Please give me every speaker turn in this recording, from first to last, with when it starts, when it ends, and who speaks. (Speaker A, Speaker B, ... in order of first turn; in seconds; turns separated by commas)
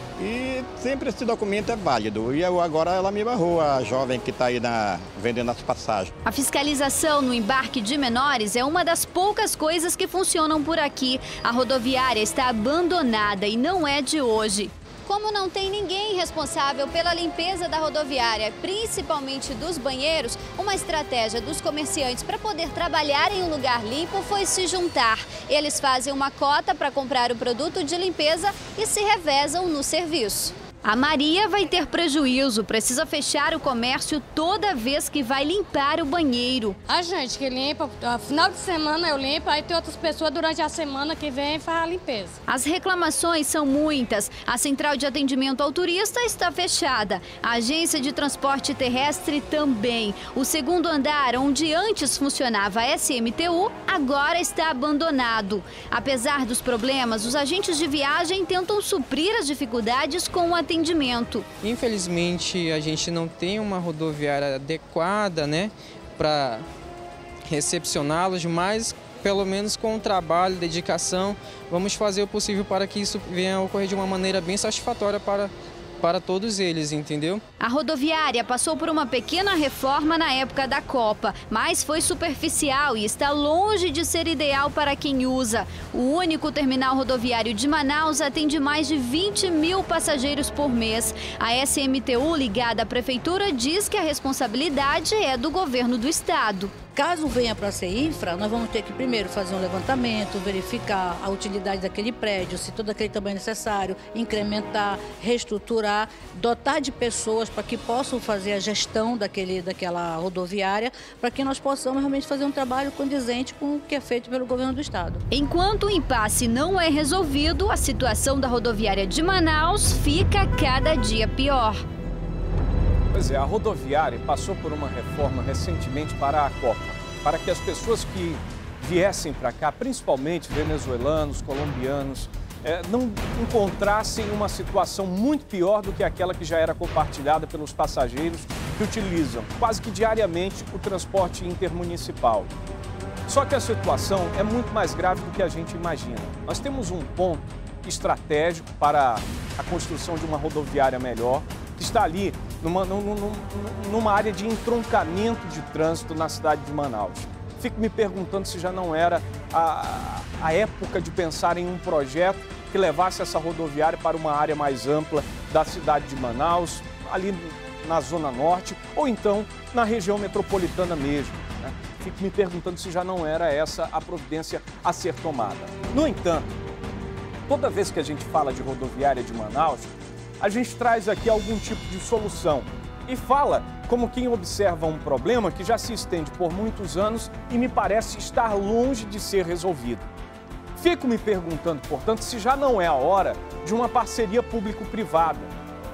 Speaker A: 0.2-6.1, Speaker B: 6.2-36.8, Speaker C: 36.9-42.4, Speaker B: 42.5-61.5, Speaker D: 61.6-66.7, Speaker D: 67.5-77.4, Speaker B: 77.6-96.7, Speaker E: 96.9-115.2, Speaker B: 115.3-121.8, Speaker F: 123.1-142.5, Speaker F: 143.3-176.6, Speaker F: 177.5-190.1, Speaker F: 190.7-195.5